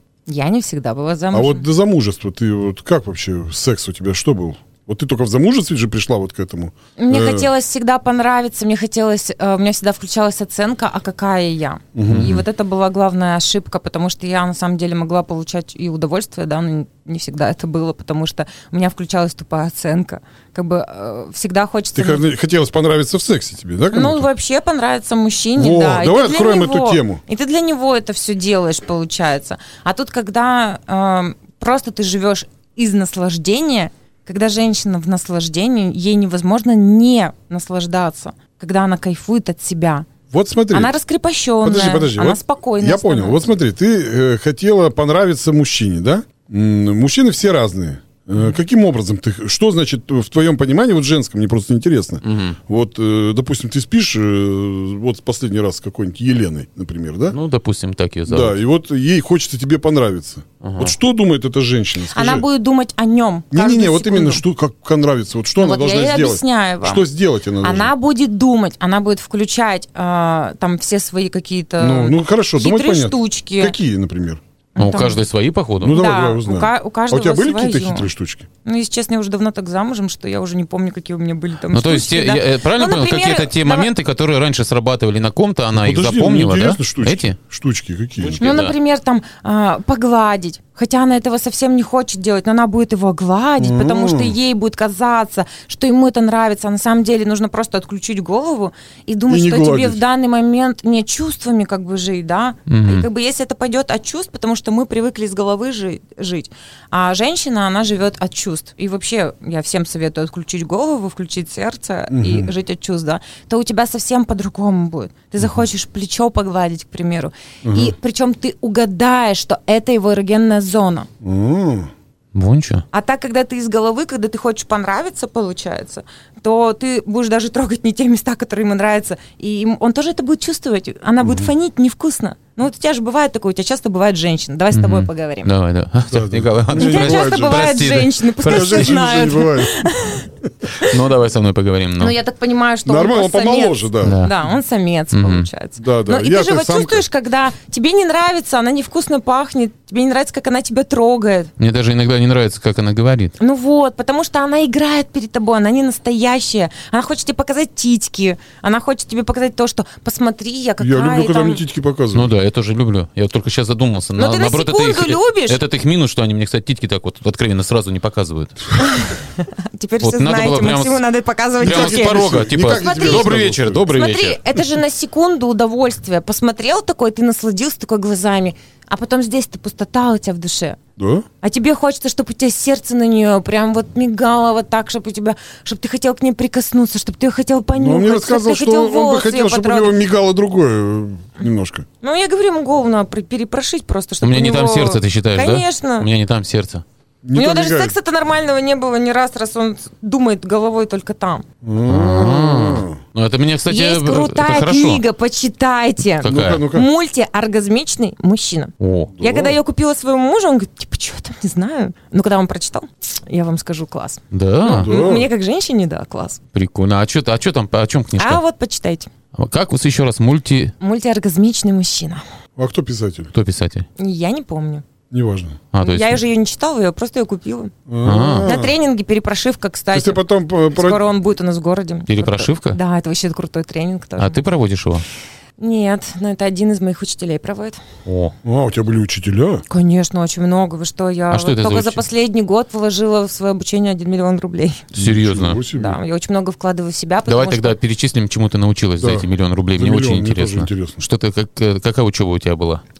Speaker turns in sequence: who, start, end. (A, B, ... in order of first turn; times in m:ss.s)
0:00.3-0:01.6 A
0:01.3-0:07.5 B
0:07.0-0:22.2 A
0:11.9-0:12.4 B
0:12.1-0:12.4 C
0:21.9-0:24.3 B
0:23.9-0:40.1 A
0:25.6-0:27.2 B
0:40.3-0:40.9 B
0:40.7-0:43.4 A
0:41.6-0:57.4 B
0:52.2-0:52.6 C
0:57.3-0:58.6 C
0:58.3-1:02.4 B
1:00.6-1:00.9 C
1:02.1-1:04.4 A
1:03.5-1:07.9 B
1:05.6-1:07.0 A
1:07.6-1:13.8 A
1:11.8-1:14.4 B
1:14.8-1:15.2 A
1:14.8-1:16.0 C
1:15.8-1:18.5 B
1:15.9-1:18.1 A
1:18.6-1:23.9 A
1:21.7-1:27.4 C
1:25.8-1:28.4 B
1:28.3-1:28.7 C
1:28.4-2:01.1 A
1:33.6-1:34.4 B
1:39.3-1:40.0 B
1:42.7-1:43.0 C
1:52.1-1:52.5 B
1:57.6-1:57.9 B
2:01.2-2:01.9 B
2:02.3-2:02.8 C
2:02.9-2:15.5 A
2:11.2-2:11.5 B
2:14.7-2:19.2 C
2:16.1-2:17.7 B
2:16.7-2:20.9 A
2:18.4-2:19.8 B
2:20.8-2:22.2 C
2:22.0-2:31.5 A
2:22.8-2:24.2 B
2:24.0-2:24.3 C
2:25.1-2:25.5 C
2:25.8-2:27.0 B
2:31.6-2:33.3 C
2:33.4-2:41.6 A
2:40.8-2:42.3 B
2:42.1-2:48.7 C
2:44.2-2:45.6 A
2:48.8-2:53.4 A
2:50.0-2:51.0 C
2:51.6-2:54.4 C
2:51.6-2:53.8 B
2:53.9-3:00.8 A
3:01.0-3:01.2 B
3:01.4-3:09.9 A
3:07.8-3:11.8 B
3:12.0-3:16.1 A
3:14.2-3:16.8 C
3:17.2-3:17.9 B
3:17.3-3:21.4 A
3:21.6-3:23.0 B
3:21.9-3:25.0 C
3:23.7-3:36.4 A
3:26.2-3:26.6 C
3:26.2-3:26.9 B
3:28.8-3:29.1 C
3:29.1-3:29.6 B
3:34.3-3:34.9 C
3:34.7-3:35.3 B
3:36.5-3:38.4 C
3:38.2-3:39.1 A
3:39.3-3:40.7 C
3:40.8-3:42.2 A
3:42.6-3:43.3 B
3:43.3-3:43.8 C
3:44.0-3:44.8 A
3:45.1-3:45.6 B
3:45.7-3:46.2 C
3:45.8-3:47.7 A
3:47.9-3:48.7 B
3:48.0-3:48.6 C
3:48.4-3:54.4 A
3:49.9-3:51.0 B
3:52.1-3:52.8 C
3:54.2-3:55.0 C
3:55.6-3:57.8 A
3:58.0-3:58.3 C
3:58.4-3:59.6 B
3:59.7-4:04.9 A
4:01.3-4:02.0 C
4:04.9-4:05.6 C
4:04.9-4:06.0 B
4:05.7-4:07.8 A
4:07.3-4:12.8 C
4:09.0-4:11.0 B